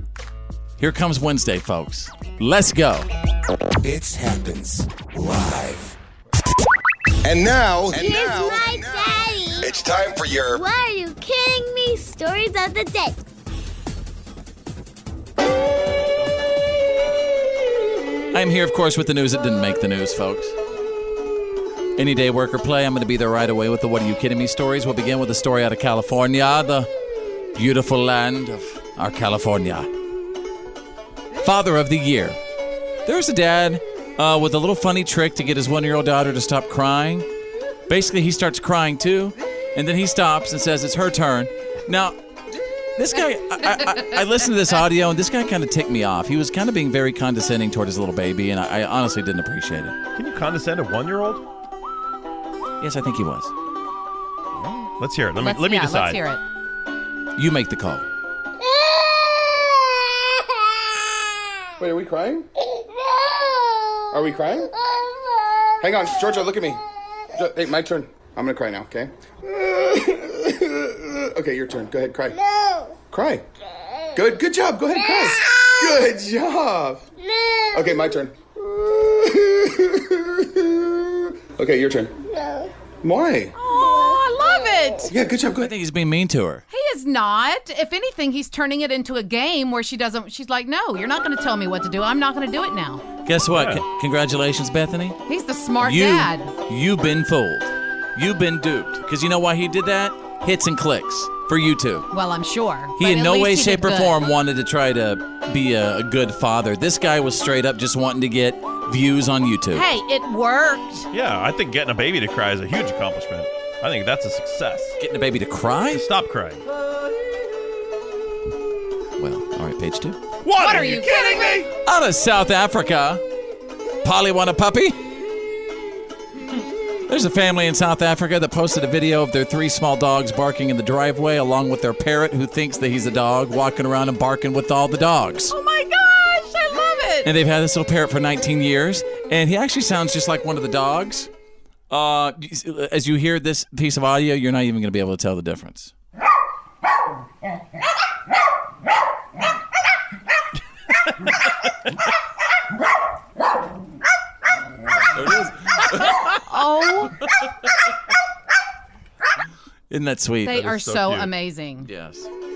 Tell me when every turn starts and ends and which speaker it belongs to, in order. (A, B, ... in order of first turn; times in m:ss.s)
0:00.8-0:03.1 A
0:03.8-0:05.9 B
0:07.2-0:10.6 B
0:07.9-0:09.7 C
0:10.5-0:13.2 C
0:18.3-0:20.6 A
0:22.0-0:26.9 A
0:27.6-0:29.9 A
0:31.4-0:32.4 A
0:33.0-0:37.3 A
0:37.9-0:42.2 A
0:43.0-0:50.0 A
0:50.2-0:51.4 D
0:52.8-0:53.5 A
0:54.6-0:56.2 D
0:55.4-0:56.4 E
0:57.4-0:58.0 A
1:01.8-1:02.5 F
1:04.1-1:04.7 F
1:05.8-1:06.8 F
1:07.4-1:12.4 F
1:13.1-1:13.4 F
1:14.2-1:17.0 F
1:17.7-1:22.1 F
1:23.0-1:23.5 F
1:23.6-1:25.1 E
1:25.1-1:25.7 F
1:25.6-1:26.6 A
1:26.7-1:33.0 E
1:33.3-1:35.2 A
1:33.5-1:33.8 D
1:35.3-1:36.5 E
1:35.8-1:42.1 A
1:42.1-1:44.2 E
1:43.0-1:49.9 A
1:49.7-1:51.1 E
1:51.1-1:55.0 D
1:55.0-1:56.1 A
1:55.9-1:56.6 D
1:59.2-2:00.2 A
2:00.6-2:01.6 E
2:00.6-2:01.6 D
2:01.8-2:03.2 A
2:04.0-2:05.0 A
2:07.1-2:15.6 A
2:15.5-2:17.3 E
2:17.2-2:21.3 A
2:21.9-2:25.9 A
2:35.1-2:36.4 A
2:36.5-2:37.2 E
2:39.9-2:40.9 A
2:40.4-2:41.9 E
2:40.7-2:41.3 D
2:41.8-2:42.3 A